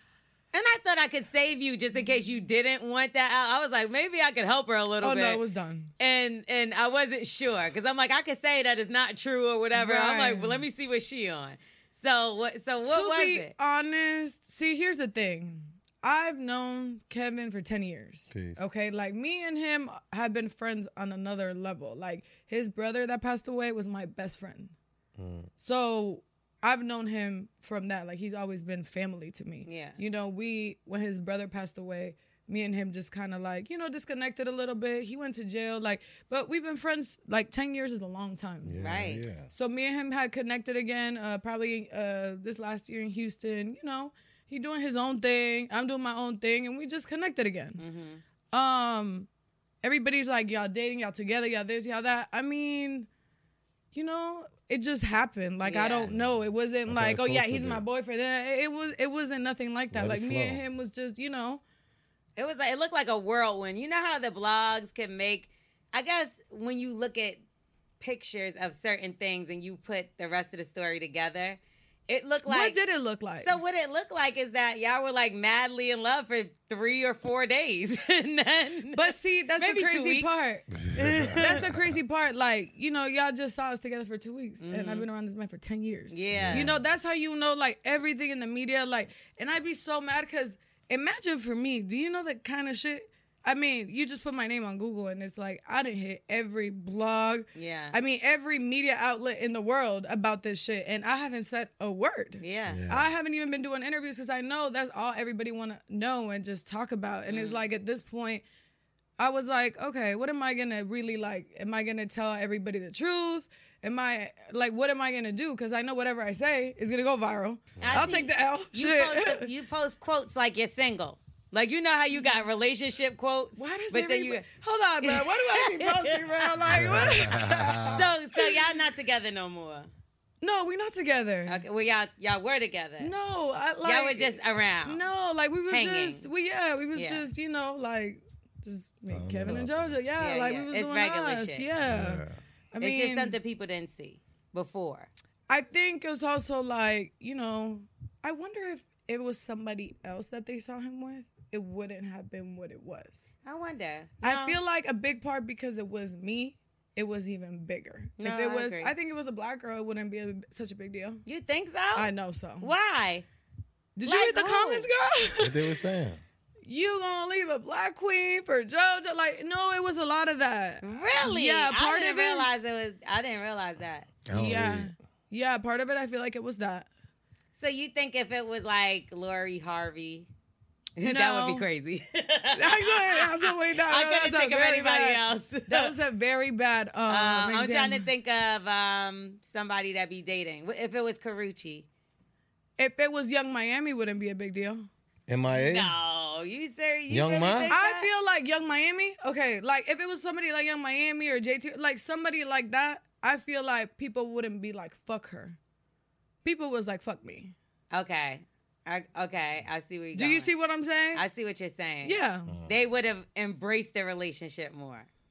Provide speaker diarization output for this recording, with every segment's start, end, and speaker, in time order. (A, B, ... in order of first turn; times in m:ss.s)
0:00.5-0:05.4 A
0:05.0-0:05.9 B
0:06.0-0:13.5 A
0:09.7-0:10.6 B
0:12.8-0:24.7 B
0:18.3-0:18.6 C
0:25.2-0:25.5 C
0:25.6-0:38.8 B
0:29.6-0:30.0 A
0:38.6-0:39.5 C
0:38.8-0:39.2 A
0:39.5-0:47.8 B
0:47.8-0:48.2 A
0:48.5-0:49.3 B
0:49.8-0:53.1 B
0:53.9-1:01.6 B
0:55.6-0:56.1 A
0:56.1-0:57.8 C
0:59.9-1:00.6 C
1:02.4-1:07.4 A
1:08.0-1:12.8 A
1:12.4-1:13.6 B
1:13.4-1:20.3 A
1:18.9-1:20.7 B
1:20.8-1:21.6 C
1:20.9-1:21.7 A
1:21.4-1:48.4 B
1:24.6-1:25.0 A
1:26.1-1:26.8 A
1:26.3-1:26.8 C
1:37.5-1:38.0 A
1:42.4-1:42.8 A
1:42.6-1:43.1 C
1:47.3-1:47.6 A
1:49.2-1:59.5 B
1:57.8-1:58.1 C
1:57.8-2:04.4 A
2:03.6-2:08.5 B
2:05.0-2:07.0 A
2:06.7-2:08.1 C
2:07.9-2:09.9 A
2:10.4-2:11.6 B
2:11.4-2:13.1 A
2:13.0-2:23.4 B
2:13.8-2:15.0 A
2:15.7-2:16.2 A
2:16.9-2:17.2 A
2:19.1-2:20.0 C
2:20.2-2:21.7 A
2:21.8-2:22.4 C
2:22.8-2:25.1 A
2:25.5-2:33.3 B
2:33.4-2:34.6 A
2:34.2-2:41.2 B
2:38.2-2:38.9 A
2:41.2-2:43.2 A
2:41.9-2:42.7 B
2:44.0-2:45.7 B
2:44.0-2:44.9 A
2:45.4-2:46.2 C
2:46.6-2:52.5 B
2:50.8-2:54.1 A
2:54.2-2:54.9 C
2:54.3-2:56.9 B
2:57.6-3:00.3 A
3:01.0-3:05.9 A
3:01.0-3:01.6 B
3:02.5-3:08.1 B
3:07.1-3:11.8 A
3:12.8-3:14.9 B
3:15.3-3:15.9 C
3:15.6-3:18.1 A
3:17.1-3:17.7 C
3:17.7-3:25.6 B
3:26.4-3:27.5 B
3:27.9-3:30.5 A
3:30.1-3:31.2 B
3:31.1-3:35.1 A
3:32.0-3:32.5 B
3:32.5-3:32.7 C